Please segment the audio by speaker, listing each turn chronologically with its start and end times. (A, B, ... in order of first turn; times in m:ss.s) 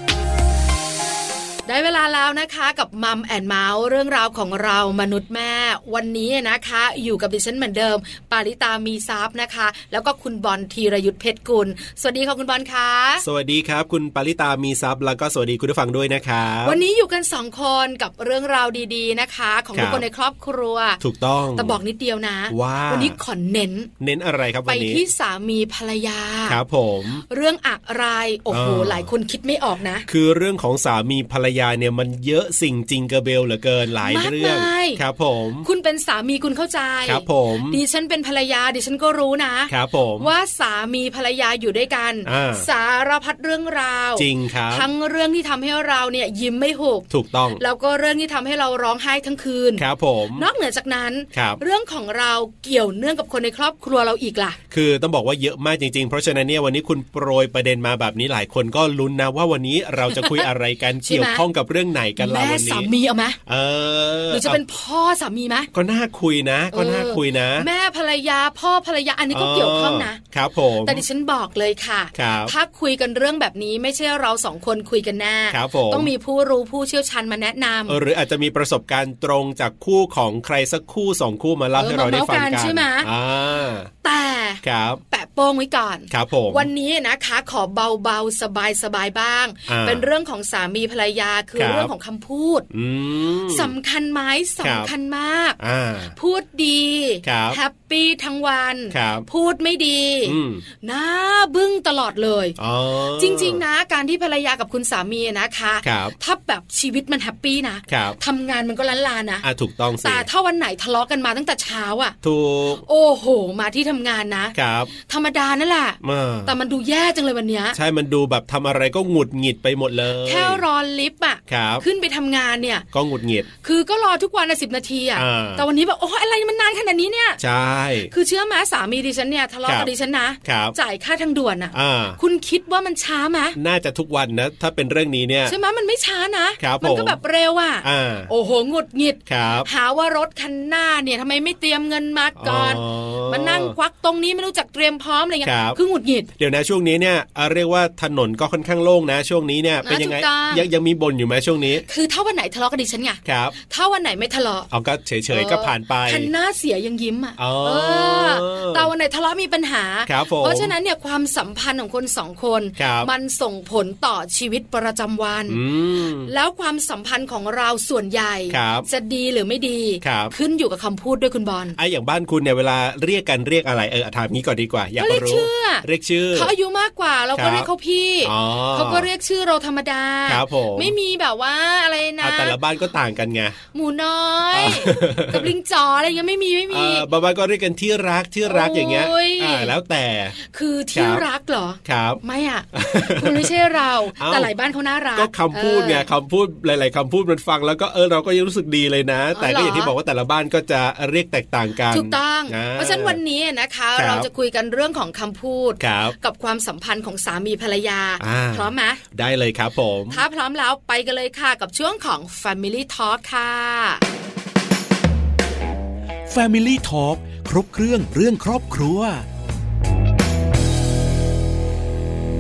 0:01.7-0:13.2 A
0:13.2-0:16.8 B
0:16.6-0:21.0 A
0:19.7-0:20.0 B
0:21.0-0:21.8 B
0:21.6-0:23.9 A
0:22.5-0:23.2 B
0:24.0-0:25.0 B
0:24.7-0:26.6 A
0:26.5-0:27.2 B
0:27.3-0:30.1 A
0:28.5-0:29.1 B
0:30.1-0:35.7 B
0:34.0-0:35.0 A
0:35.6-0:49.8 A
0:37.0-0:37.8 B
0:39.7-0:40.3 B
0:42.2-0:42.7 B
0:44.2-0:44.9 B
0:47.1-0:47.6 B
0:49.8-0:50.5 B
0:50.4-0:54.6 A
0:51.3-0:51.6 B
0:54.7-1:02.9 B
1:00.1-1:00.5 A
1:01.0-1:01.4 A
1:02.2-1:03.4 A
1:03.5-1:04.6 B
1:04.3-1:05.7 A
1:05.7-1:07.7 B
1:06.7-1:10.2 A
1:09.3-1:11.0 B
1:10.8-1:18.0 A
1:12.1-1:12.5 B
1:15.5-1:16.1 B
1:17.9-1:23.9 B
1:21.8-1:23.1 A
1:24.0-1:32.7 A
1:24.6-1:25.0 B
1:26.1-1:26.7 B
1:29.7-1:30.0 B
1:31.6-1:31.9 B
1:32.7-1:33.7 B
1:33.5-1:35.6 A
1:34.6-1:34.9 B
1:35.6-1:36.2 B
1:36.2-1:42.6 A
1:37.2-1:37.6 B
1:38.9-1:39.3 B
1:40.2-1:40.6 B
1:42.6-1:43.6 B
1:43.2-1:49.5 A
1:45.8-1:46.2 B
1:47.9-1:48.2 B
1:49.4-1:50.3 B
1:50.0-1:52.2 A
1:52.2-1:52.8 B
1:52.8-1:57.8 A
1:54.6-1:54.9 B
1:56.0-1:56.5 B
1:57.7-2:00.6 B
2:00.2-2:02.8 A
2:01.5-2:01.8 B
2:02.9-2:03.5 B
2:03.6-2:07.4 A
2:05.2-2:05.6 B
2:07.4-2:08.1 B
2:08.1-2:13.6 A
2:09.7-2:09.9 B
2:10.4-2:10.8 B
2:11.7-2:12.2 B
2:13.6-2:15.6 B
2:15.5-2:26.3 A
2:16.6-2:17.2 B
2:17.8-2:18.3 B
2:19.3-2:19.7 B
2:22.4-2:23.8 B
2:25.4-2:25.8 B
2:26.4-2:31.8 B
2:29.8-2:30.7 A
2:31.9-2:34.7 A
2:33.2-2:33.6 B
2:34.7-2:36.3 B
2:35.3-2:45.6 A
2:37.4-2:38.9 B
2:40.1-2:40.7 B
2:42.8-2:43.1 B
2:45.5-2:46.3 B
2:46.2-2:51.8 A
2:48.5-2:48.9 B
2:50.0-2:50.4 B
2:51.8-2:56.5 B
2:55.0-3:02.6 A
2:57.4-2:57.7 B
2:58.2-2:59.1 B
3:00.3-3:01.0 B
3:02.2-3:03.6 B
3:03.7-3:07.1 A
3:04.5-3:05.5 B
3:06.7-3:10.4 B
3:08.4-3:09.7 A
3:10.4-3:16.1 A
3:10.9-3:11.2 B
3:11.8-3:12.2 B
3:12.7-3:13.6 B
3:14.2-3:14.5 B
3:15.2-3:23.2 B
3:19.3-3:19.9 A
3:21.9-3:29.0 A
3:24.0-3:24.3 B
3:25.8-3:26.2 B
3:28.2-3:30.2 B
3:30.1-3:34.0 A
3:36.3-3:39.2 C